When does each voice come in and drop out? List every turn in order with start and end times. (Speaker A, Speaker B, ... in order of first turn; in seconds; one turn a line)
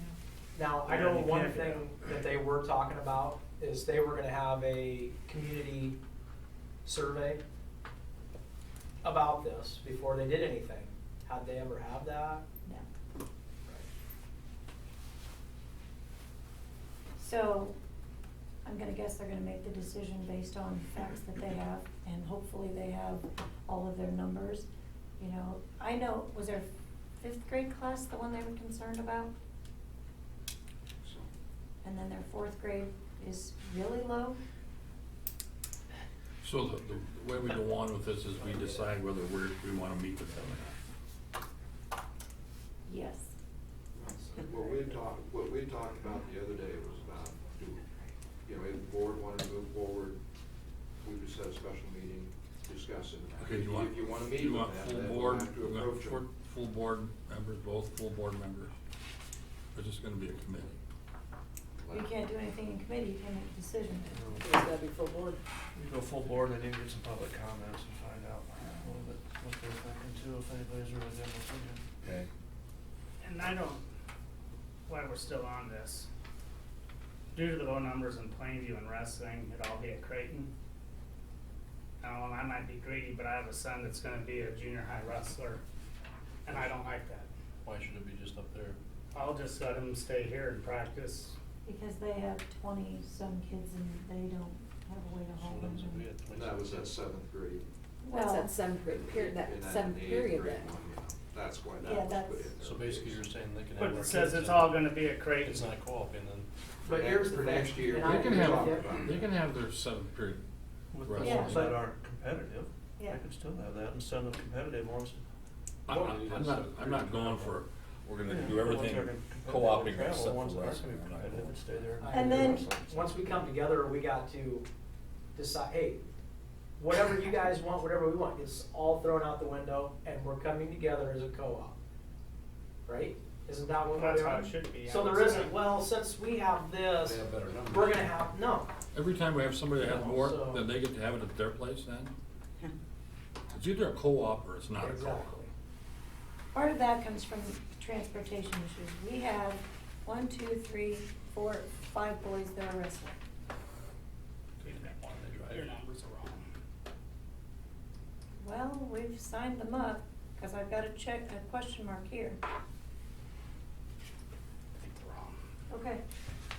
Speaker A: 0.5-6.0
Speaker B: 0.9-1.9
Speaker A: 6.8-7.4
Speaker A: 9.0-12.4
Speaker C: 17.2-17.8
Speaker C: 18.6-26.7
Speaker C: 27.2-29.3
Speaker D: 31.0-31.3
Speaker C: 31.8-34.4
Speaker E: 36.4-40.8
Speaker C: 42.9-43.3
Speaker D: 44.0-47.8
Speaker D: 48.5-50.2
Speaker D: 51.0-56.2
Speaker E: 53.4-58.7
Speaker E: 59.7-60.7
Speaker D: 61.8-62.1
Speaker C: 61.9-64.4
Speaker B: 64.0-64.5
Speaker F: 64.4-65.4
Speaker B: 65.8-71.8
Speaker G: 73.2-73.8
Speaker G: 74.9-76.1
Speaker G: 77.3-80.5
Speaker G: 82.0-85.6
Speaker G: 86.5-87.3
Speaker H: 87.6-88.8
Speaker G: 89.1-91.4
Speaker C: 91.7-96.1
Speaker H: 95.4-96.9
Speaker D: 96.3-97.7
Speaker C: 98.0-98.6
Speaker F: 98.1-100.7
Speaker D: 98.8-103.2
Speaker C: 101.8-102.7
Speaker H: 102.7-104.7
Speaker G: 103.8-105.7
Speaker H: 105.4-106.5
Speaker A: 106.9-109.0
Speaker D: 106.9-109.2
Speaker E: 108.0-110.5
Speaker B: 110.9-115.2
Speaker E: 111.0-111.6
Speaker C: 111.2-111.7
Speaker E: 115.9-121.5
Speaker H: 115.9-117.6
Speaker B: 118.3-123.2
Speaker A: 122.0-124.7
Speaker C: 122.1-122.7
Speaker A: 125.3-126.0
Speaker A: 126.8-131.8
Speaker A: 132.9-138.7
Speaker G: 133.9-135.6
Speaker D: 137.0-137.9
Speaker H: 137.5-137.9
Speaker E: 138.9-142.1
Speaker A: 139.8-140.6
Speaker E: 143.5-145.3
Speaker A: 144.8-145.5
Speaker C: 146.5-153.2
Speaker G: 154.6-156.5
Speaker B: 154.7-155.6
Speaker C: 158.4-162.4
Speaker G: 164.8-165.3
Speaker C: 165.7-166.0